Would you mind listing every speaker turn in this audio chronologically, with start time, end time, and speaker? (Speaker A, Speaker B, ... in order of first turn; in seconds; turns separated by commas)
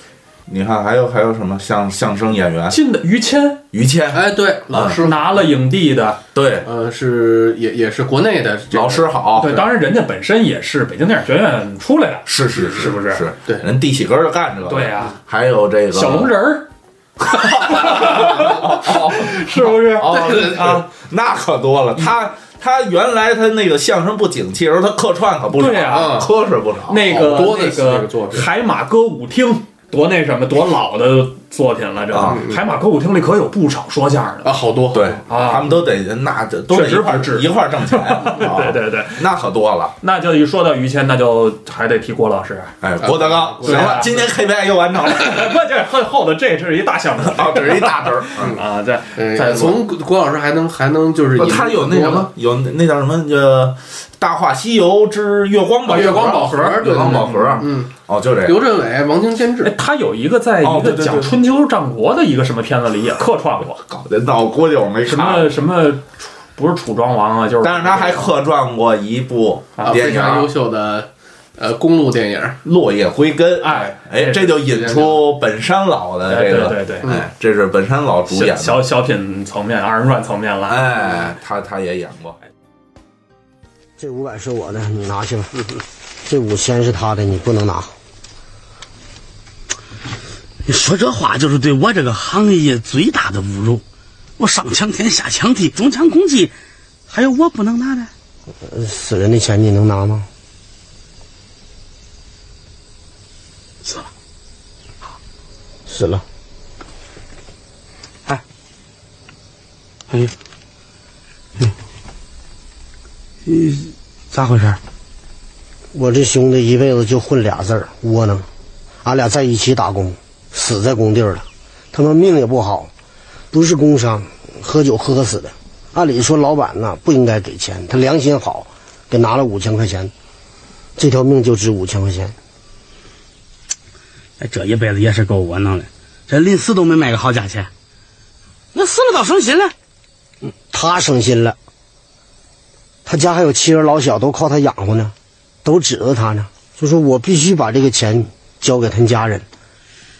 Speaker A: 0.5-2.8, Speaker B: 2.7-3.6, Speaker A: 3.7-5.0, Speaker C: 4.1-5.5, Speaker B: 5.0-6.2, Speaker A: 6.3-6.7, Speaker C: 6.6-9.1, Speaker A: 8.7-9.6, Speaker B: 9.4-13.2, Speaker A: 12.2-16.3, Speaker B: 14.7-15.2, Speaker B: 15.9-16.7, Speaker A: 17.2-27.0, Speaker B: 17.4-20.8, Speaker C: 20.0-20.8, Speaker B: 25.6-26.2, Speaker C: 25.9-26.3, Speaker B: 26.9-34.6, Speaker C: 27.0-28.5, Speaker A: 32.1-32.4, Speaker C: 32.2-32.6, Speaker C: 34.4-35.2, Speaker A: 34.9-39.9, Speaker B: 35.3-35.6, Speaker B: 36.7-39.2, Speaker B: 40.0-42.7, Speaker A: 42.8-45.5, Speaker C: 43.0-44.3, Speaker B: 43.6-44.1, Speaker B: 45.0-49.8, Speaker A: 47.3-48.5, Speaker C: 48.4-48.6, Speaker C: 49.1-52.3, Speaker A: 51.4-58.6, Speaker B: 55.9-57.5, Speaker C: 55.9-59.7, Speaker B: 59.6-63.8, Speaker A: 60.6-61.4, Speaker A: 63.9-65.5, Speaker B: 65.0-68.3, Speaker A: 67.6-70.5, Speaker C: 69.8-72.6, Speaker A: 72.6-78.8, Speaker B: 73.6-74.5, Speaker C: 74.6-75.2, Speaker B: 76.2-77.1, Speaker B: 78.3-80.9, Speaker A: 80.7-82.4, Speaker D: 84.0-85.7, Speaker D: 86.2-87.9, Speaker E: 90.7-93.8, Speaker E: 94.4-96.5, Speaker E: 97.1-98.1, Speaker D: 98.6-100.3, Speaker D: 105.9-106.2, Speaker E: 113.5-114.8, Speaker D: 115.9-118.5, Speaker D: 119.0-122.9, Speaker D: 123.5-130.1, Speaker D: 130.9-132.3, Speaker E: 134.4-137.7, Speaker E: 138.7-139.7, Speaker D: 140.7-141.6, Speaker D: 143.1-149.4